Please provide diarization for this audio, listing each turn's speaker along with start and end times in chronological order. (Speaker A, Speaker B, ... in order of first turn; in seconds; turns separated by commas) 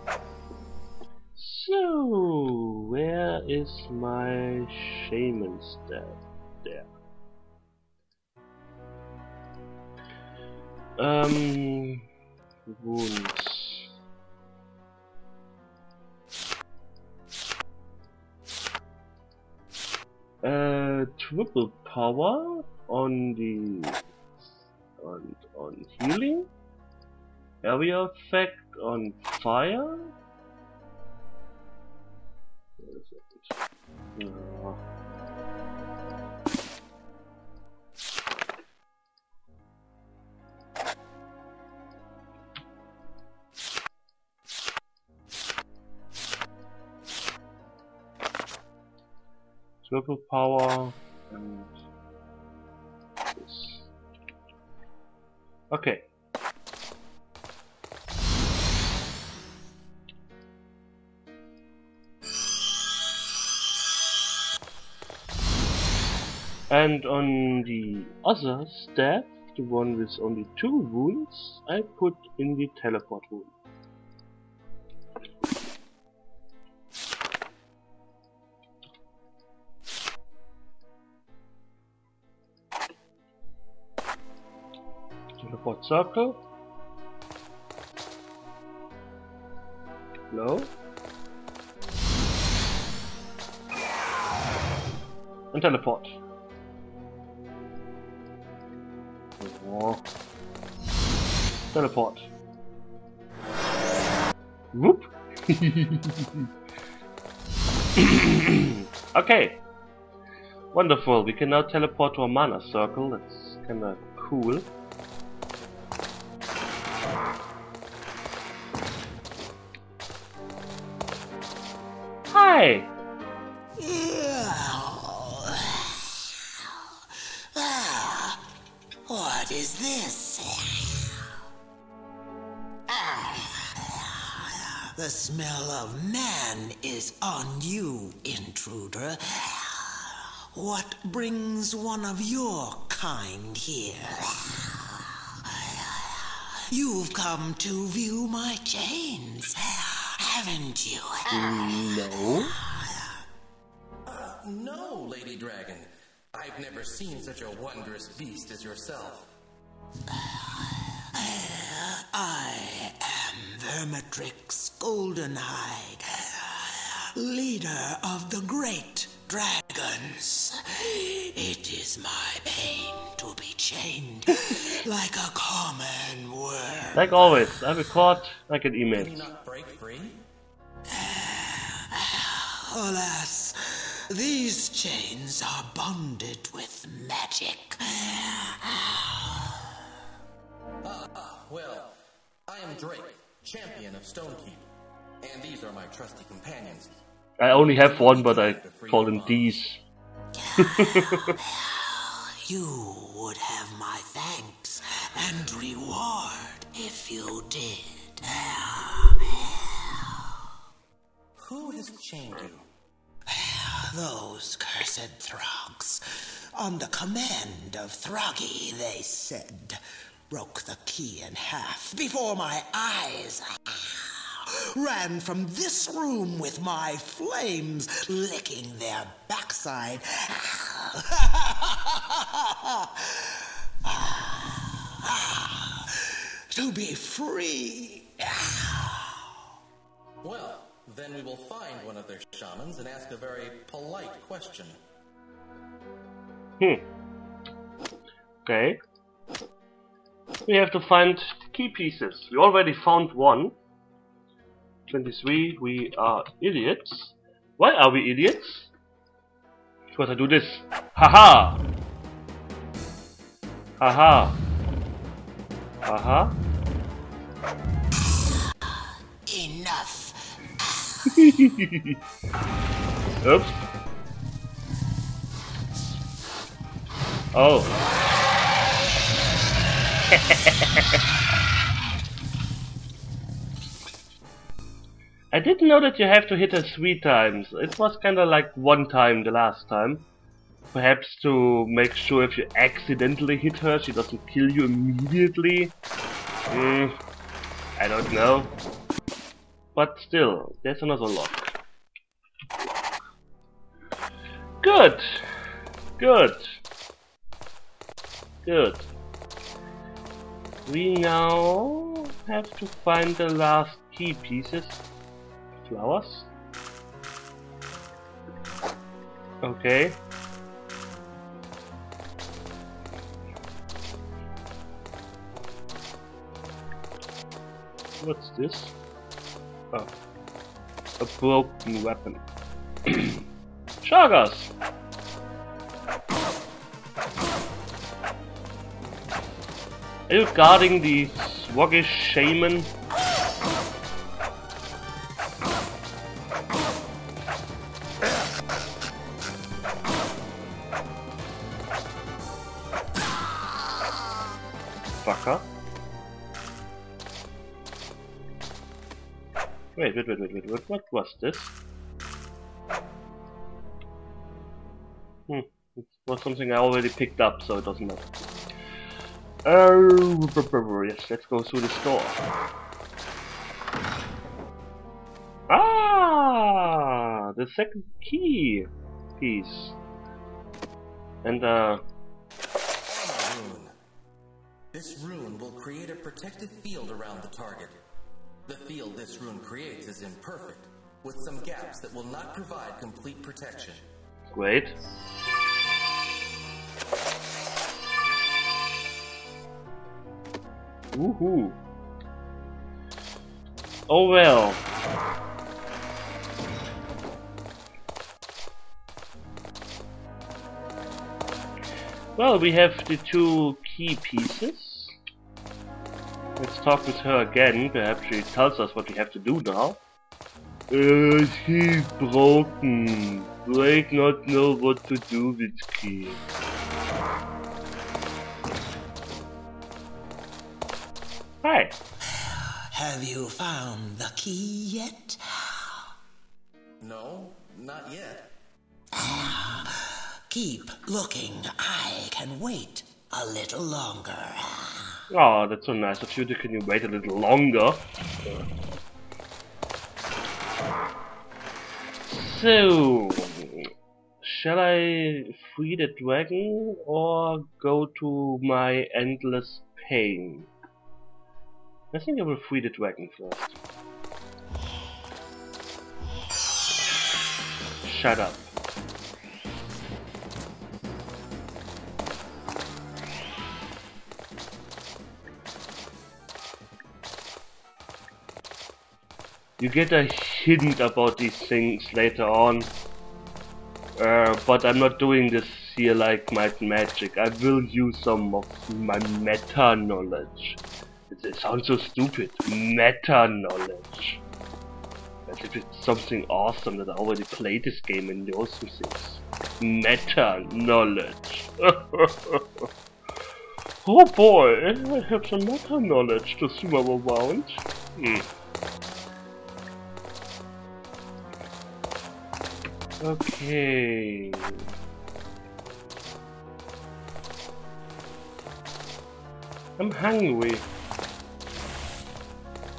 Speaker A: 1.4-6.9, Speaker A: 11.0-12.0, Speaker A: 12.7-13.9, Speaker A: 20.4-26.5, Speaker A: 27.6-30.1, Speaker A: 32.8-33.5, Speaker A: 34.2-34.8, Speaker A: 49.8-51.7, Speaker A: 53.4-53.9, Speaker A: 55.7-56.0, Speaker A: 66.7-73.5, Speaker A: 85.4-86.4, Speaker A: 90.3-90.7, Speaker A: 95.5-96.1, Speaker A: 99.4-100.0, Speaker A: 101.7-102.3, Speaker A: 104.7-106.4, Speaker A: 108.0-109.6, Speaker A: 110.7-114.7, Speaker A: 122.3-122.9, Speaker B: 123.8-126.8, Speaker B: 127.5-128.4, Speaker B: 129.1-131.2, Speaker B: 132.9-145.2, Speaker B: 145.7-153.2, Speaker A: 151.3-152.6, Speaker C: 154.1-159.3, Speaker B: 160.1-160.4, Speaker B: 161.1-177.4, Speaker A: 176.9-179.3, Speaker C: 178.9-180.2, Speaker B: 180.9-189.6, Speaker C: 190.8-191.9, Speaker C: 192.5-194.7, Speaker C: 195.2-197.0, Speaker A: 197.4-199.8, Speaker C: 197.5-199.6, Speaker B: 200.4-210.2, Speaker A: 200.6-201.3, Speaker C: 211.4-212.7, Speaker B: 213.3-216.0, Speaker B: 216.5-239.3, Speaker C: 240.2-244.8, Speaker A: 246.6-246.8, Speaker A: 248.4-248.8, Speaker A: 250.5-253.5, Speaker A: 254.9-258.7, Speaker A: 259.9-261.6, Speaker A: 263.8-264.4, Speaker A: 265.9-266.3, Speaker B: 269.2-271.1, Speaker A: 271.1-271.9, Speaker A: 273.2-273.6, Speaker A: 277.3-277.7, Speaker A: 280.1-280.8, Speaker A: 285.3-290.1, Speaker A: 290.7-295.7, Speaker A: 296.5-296.9, Speaker A: 297.8-298.5, Speaker A: 299.7-301.5, Speaker A: 304.6-305.2, Speaker A: 306.0-306.4, Speaker A: 308.4-308.9, Speaker A: 310.6-314.8, Speaker A: 315.6-316.3, Speaker A: 319.4-320.0, Speaker A: 328.0-328.7, Speaker A: 331.0-332.2, Speaker A: 332.9-333.2, Speaker A: 333.8-334.5, Speaker A: 340.1-342.7, Speaker A: 355.0-355.4, Speaker A: 359.8-361.5, Speaker A: 365.3-368.1, Speaker A: 369.4-372.2, Speaker A: 375.5-379.8, Speaker A: 381.2-381.8, Speaker C: 382.9-383.7, Speaker C: 384.7-387.8, Speaker C: 388.4-393.9, Speaker A: 394.3-394.7, Speaker A: 400.9-401.6, Speaker A: 403.9-404.6, Speaker A: 412.1-415.0, Speaker A: 416.4-419.8, Speaker A: 420.7-426.2, Speaker A: 431.4-431.7, Speaker B: 432.7-435.8, Speaker C: 436.8-438.3, Speaker B: 438.9-445.0, Speaker A: 445.1-447.8, Speaker A: 452.1-453.6, Speaker A: 454.2-460.5, Speaker A: 461.9-463.6, Speaker A: 467.8-468.5, Speaker A: 479.6-482.7, Speaker A: 484.0-494.2, Speaker A: 495.3-502.7, Speaker A: 503.8-508.2, Speaker A: 513.0-514.5, Speaker A: 519.8-520.7